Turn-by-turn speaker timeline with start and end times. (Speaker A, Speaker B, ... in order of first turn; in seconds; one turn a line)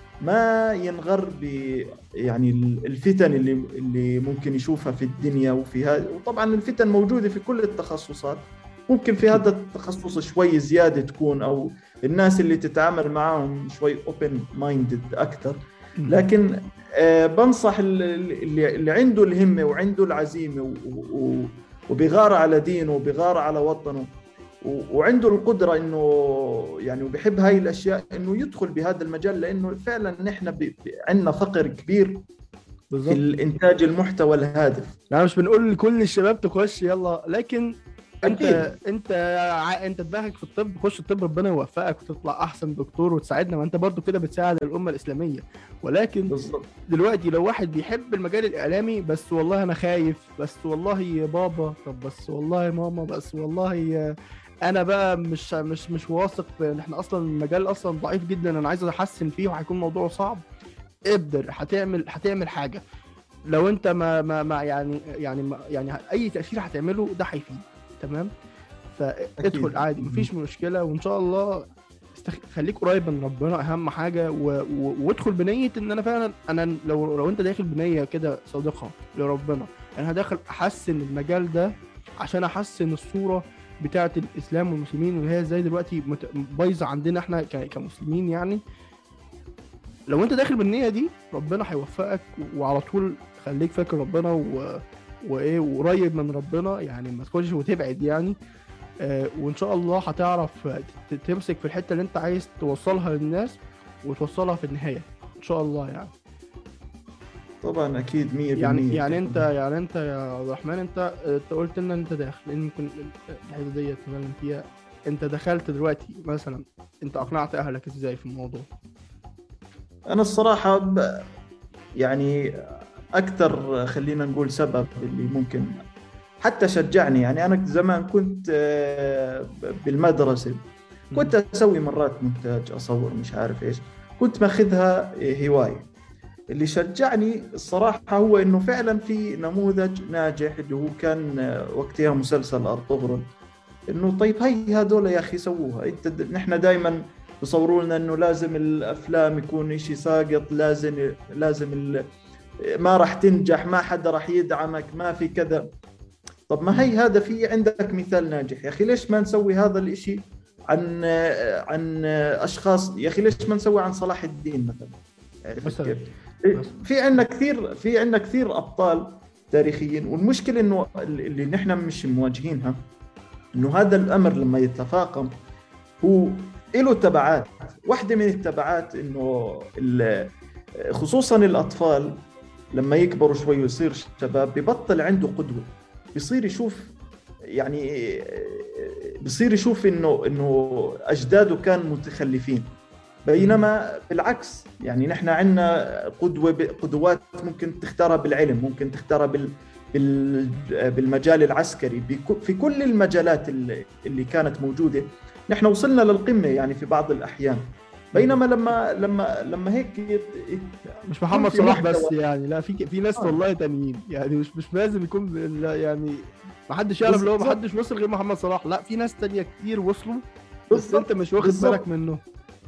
Speaker A: 0.2-24.1
Speaker B: 16.0-16.2
Speaker A: 24.6-32.2
Speaker B: 32.9-33.2
Speaker A: 33.1-34.9
Speaker B: 35.1-37.7
Speaker B: 38.2-46.3
Speaker A: 38.2-38.6
Speaker A: 46.3-46.7
Speaker B: 46.9-54.0
Speaker B: 54.6-60.4
Speaker B: 61.1-62.8
Speaker B: 63.5-68.3
Speaker B: 68.9-71.6
Speaker A: 69.4-70.3
Speaker B: 72.2-88.6
Speaker B: 90.1-98.3
Speaker B: 99.0-106.1
Speaker A: 107.6-109.4
Speaker B: 108.6-118.7
Speaker A: 120.1-121.0
Speaker A: 122.0-122.3
Speaker A: 123.2-125.7
Speaker A: 126.4-130.6
Speaker A: 131.1-135.9
Speaker A: 136.5-143.2
Speaker A: 143.9-152.0
Speaker A: 152.8-155.7
Speaker A: 156.5-172.8
Speaker B: 165.6-166.0
Speaker A: 173.5-175.3
Speaker A: 176.0-180.3
Speaker A: 180.9-186.9
Speaker A: 187.6-192.7
Speaker A: 193.3-212.1
Speaker B: 193.3-193.7
Speaker B: 208.1-208.4
Speaker B: 211.1-222.2
Speaker A: 217.0-217.6
Speaker A: 220.7-221.8